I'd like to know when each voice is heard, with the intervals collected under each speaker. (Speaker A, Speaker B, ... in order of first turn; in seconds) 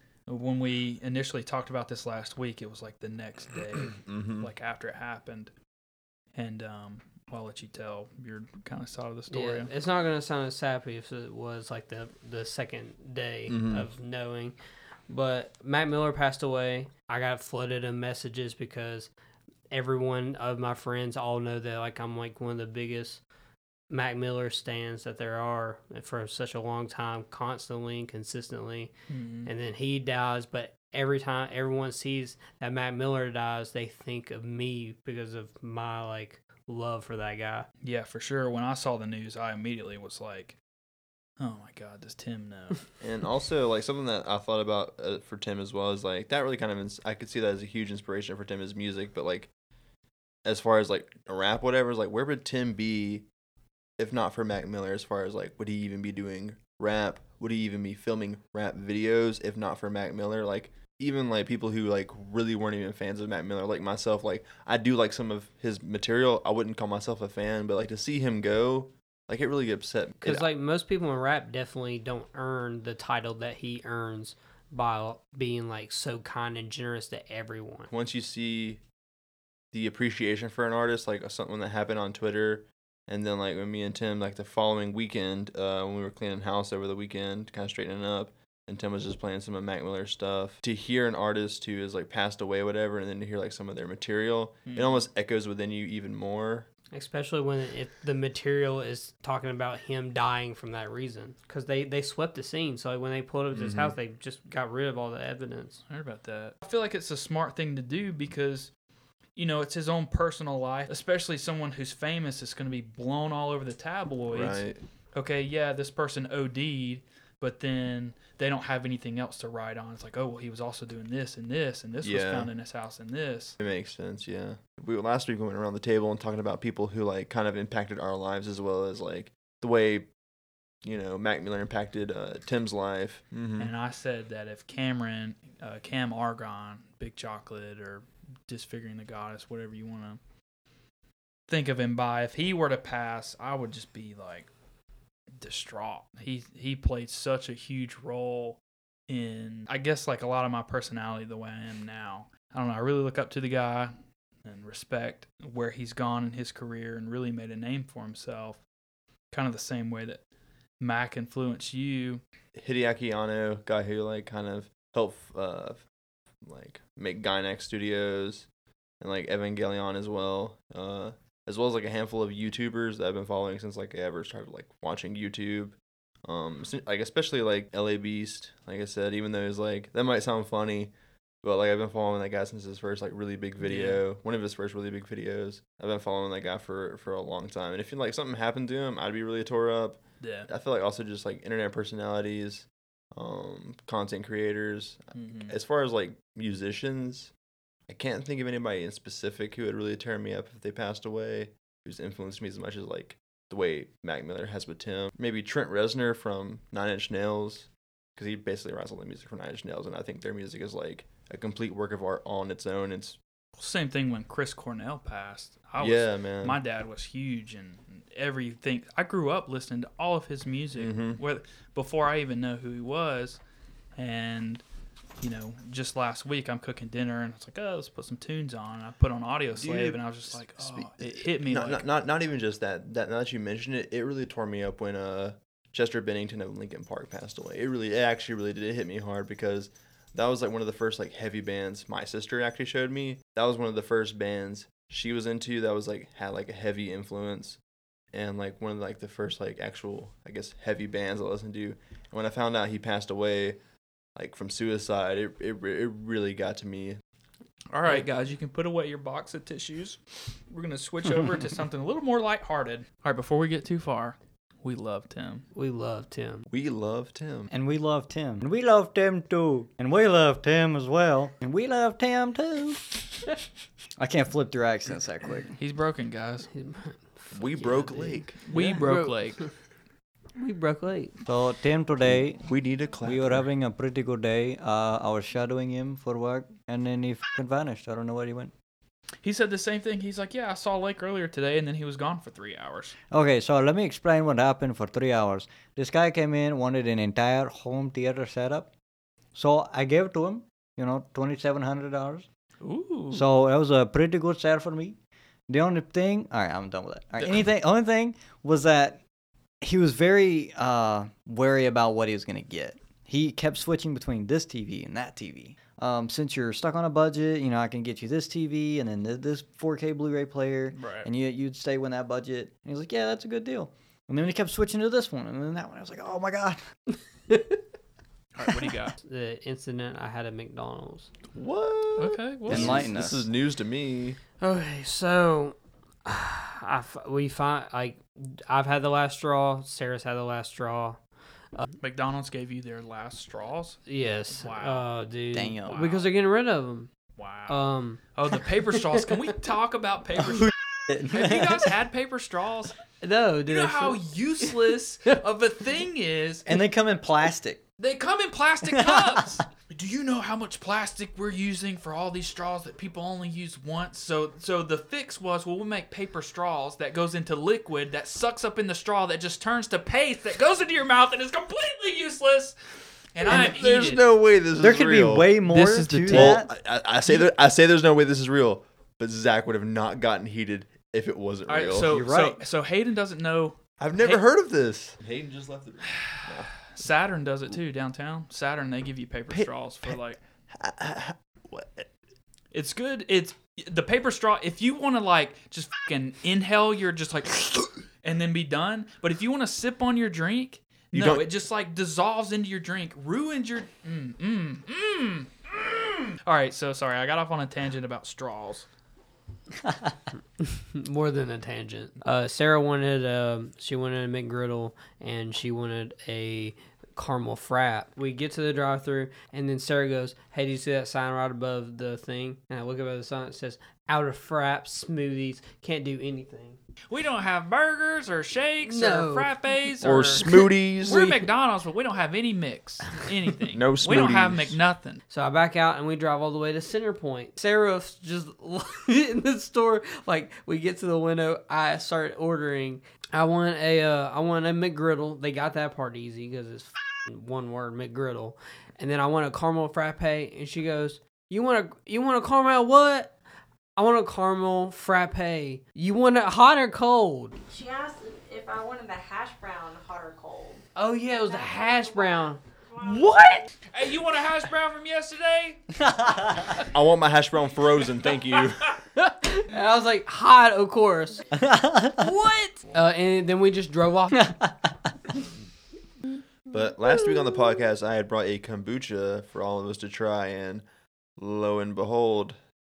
Speaker A: 0.3-5.5, 6.3-9.7, 29.1-29.5, 37.8-40.5, 41.4-42.8, 94.7-95.0, 105.9-108.7, 109.3-114.6, 115.1-123.6, 133.6-140.2, 141.5-144.5, 145.4-153.9, 154.4-158.6, 159.3-160.2, 160.8-162.2, 183.6-184.0, 190.2-190.5, 195.1-195.5, 213.6-223.4, 223.9-224.6, 225.2-231.8, 257.7-260.0, 260.5-265.4, 275.6-276.5, 278.5-279.5, 289.2-292.9, 302.6-303.2, 320.7-321.1, 328.3-328.9, 332.0-332.9, 341.8-343.8, 344.3-344.9, 345.6-346.1, 347.2-347.6, 348.1-352.8, 353.4-356.6, 357.8-372.6, 373.1-374.0, 375.4-376.4, 377.1-377.3, 381.5-384.2, 386.0-390.2, 392.5-408.7, 426.9-435.0, 463.0-465.6, 472.0-472.5
Speaker B: 4.0-4.5, 13.5-13.9, 43.0-49.5, 50.4-53.2, 54.0-70.4, 77.9-78.8, 79.7-96.7, 103.5-103.9, 114.3-114.8, 122.0-122.5, 123.6-130.1, 130.8-133.7, 162.5-165.8, 166.4-168.5, 169.0-180.9, 181.4-197.3, 197.9-213.2, 215.8-216.6, 220.8-221.2, 229.5-247.6, 248.1-253.6, 254.2-257.0, 266.5-267.5, 277.3-278.8, 282.4-283.4, 331.3-334.2, 373.2-375.3, 376.1-382.0, 383.8-386.7, 389.3-389.9, 390.5-391.9, 400.9-401.2, 429.8-431.1, 433.5-434.6, 466.7-468.8, 476.5-480.6, 481.2-482.4
Speaker C: 9.3-14.6, 15.1-19.1, 19.7-23.2, 23.9-28.9, 29.4-37.7, 70.2-77.9, 96.9-105.8, 265.5-266.4, 276.5-279.4, 280.4-281.1, 327.3-327.6, 329.0-331.1, 334.4-341.0, 343.9-346.9, 347.5-348.0, 348.7-349.1, 353.0-354.5, 410.4-426.6, 428.6-429.3, 430.0-430.4, 435.1-453.1, 453.8-457.4, 460.8-463.4, 469.2-471.3, 472.0-474.4
Speaker D: 267.5-273.0, 274.0-275.5, 281.2-282.5, 283.0-288.5, 293.1-298.7, 299.3-302.3, 303.1-304.9, 305.5-309.0, 309.6-326.6, 332.5-333.3, 345.3-345.8, 350.3-351.6, 356.4-357.6, 358.7-359.2, 374.6-376.5, 381.9-382.4, 466.0-466.2, 471.3-472.0, 474.2-474.7
Speaker E: 457.5-463.4